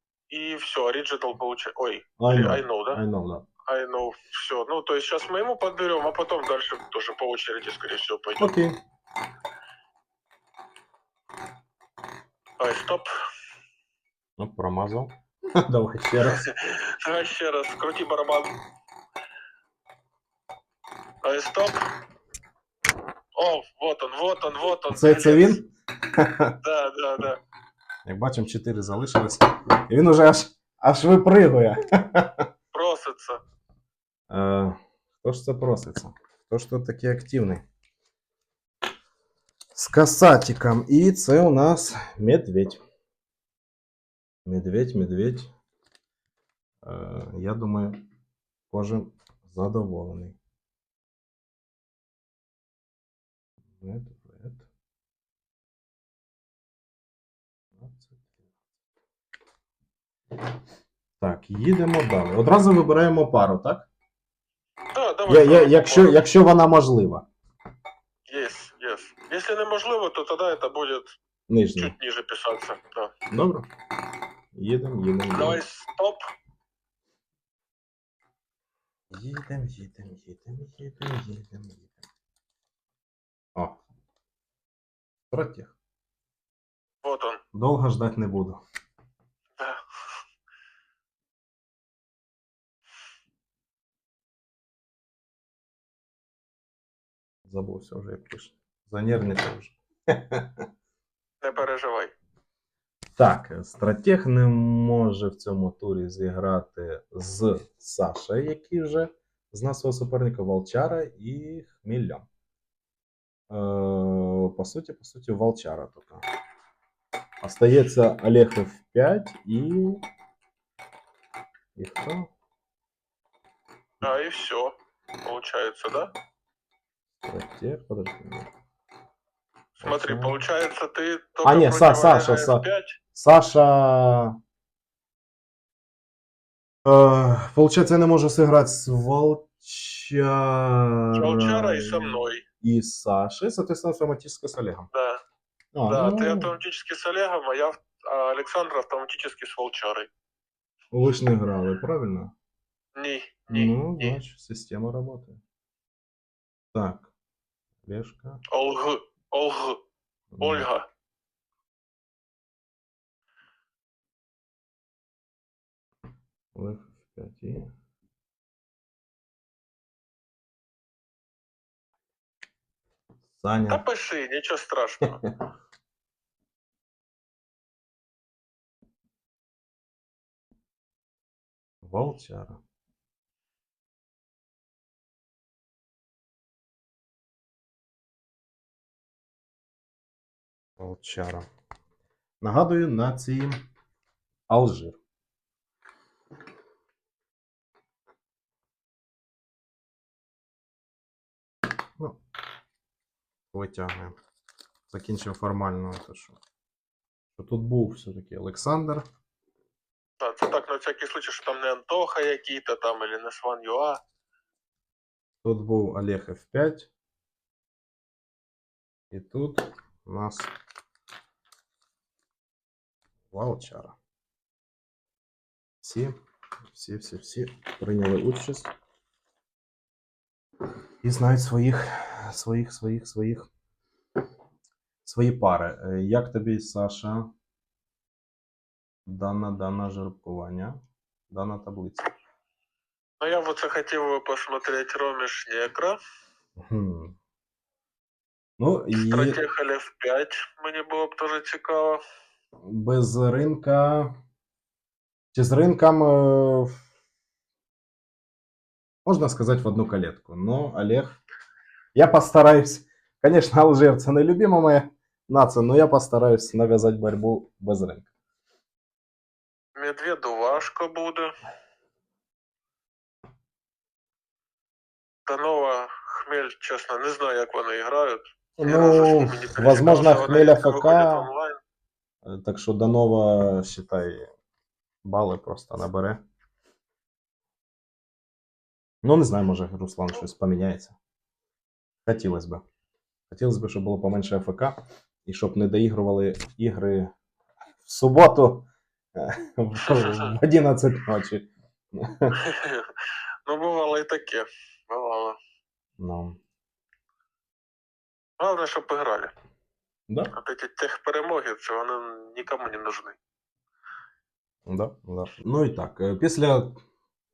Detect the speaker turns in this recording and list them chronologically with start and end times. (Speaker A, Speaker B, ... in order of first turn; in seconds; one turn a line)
Speaker A: 0.3-3.0
Speaker B: 2.2-3.5
Speaker A: 3.6-8.5
Speaker B: 8.4-8.8
Speaker A: 12.6-13.1
Speaker B: 14.4-16.5
Speaker A: 16.2-18.5
Speaker A: 21.2-21.8
Speaker A: 23.3-25.6
Speaker B: 24.9-26.5
Speaker A: 26.6-27.4
Speaker B: 28.0-32.5
Speaker A: 32.7-33.4
Speaker B: 34.3-37.6
Speaker B: 39.7-42.8
Speaker B: 44.4-45.5
Speaker B: 46.8-48.0
Speaker B: 48.7-50.4
Speaker B: 53.8-54.7
Speaker B: 57.8-58.2
Speaker B: 61.2-63.9
Speaker A: 64.9-66.2
Speaker B: 65.3-67.2
Speaker A: 68.3-71.2
Speaker B: 71.5-71.9
Speaker A: 71.8-73.1
Speaker B: 73.3-73.7
Speaker B: 74.5-75.6
Speaker A: 75.3-76.2
Speaker B: 79.1-82.0
Speaker B: 85.3-85.7
Speaker A: 87.0-87.4
Speaker B: 87.5-88.6
Speaker A: 89.6-89.8
Speaker B: 97.5-100.6
Speaker A: 101.4-102.1
Speaker B: 103.2-112.3
Speaker B: 113.5-116.2
Speaker B: 117.4-120.0
Speaker B: 121.8-122.3
Speaker A: 124.0-126.1
Speaker B: 127.2-128.5
Speaker B: 129.8-130.4
Speaker A: 129.8-133.0
Speaker B: 131.4-134.4
Speaker B: 136.8-144.9
Speaker A: 141.2-142.4
Speaker A: 144.9-145.2
Speaker B: 145.7-146.5
Speaker A: 145.9-150.1
Speaker B: 150.9-152.3
Speaker A: 152.9-154.2
Speaker B: 153.5-155.4
Speaker B: 156.7-157.1
Speaker B: 157.8-158.4
Speaker A: 158.5-159.8
Speaker B: 160.3-160.7
Speaker A: 160.4-160.9
Speaker B: 166.5-167.7
Speaker B: 173.4-173.8
Speaker A: 173.7-175.2
Speaker B: 181.8-182.6
Speaker B: 190.8-191.4
Speaker B: 192.4-193.6
Speaker B: 194.5-195.0
Speaker B: 203.5-204.2
Speaker B: 204.9-206.4
Speaker B: 207.4-209.0
Speaker A: 210.2-214.0
Speaker B: 215.4-216.9
Speaker B: 219.1-220.5
Speaker B: 223.3-223.9
Speaker B: 225.8-226.1
Speaker B: 226.7-228.7
Speaker B: 231.0-233.5
Speaker B: 235.0-237.3
Speaker B: 239.1-242.1
Speaker A: 243.2-246.0
Speaker B: 246.6-247.2
Speaker B: 248.6-249.4
Speaker A: 248.9-252.0
Speaker B: 252.7-254.1
Speaker B: 255.3-256.8
Speaker B: 259.0-261.2
Speaker B: 261.9-268.1
Speaker A: 269.8-271.3
Speaker A: 275.2-281.6
Speaker B: 278.6-281.3
Speaker B: 282.2-284.3
Speaker B: 285.0-286.2
Speaker B: 289.0-290.9
Speaker B: 292.1-292.6
Speaker B: 293.3-297.1
Speaker B: 297.8-302.4
Speaker A: 299.9-300.2
Speaker A: 302.4-302.9
Speaker A: 303.4-305.4
Speaker B: 306.0-306.4
Speaker A: 308.4-309.3
Speaker B: 310.1-310.4
Speaker A: 310.3-313.2
Speaker B: 314.6-316.8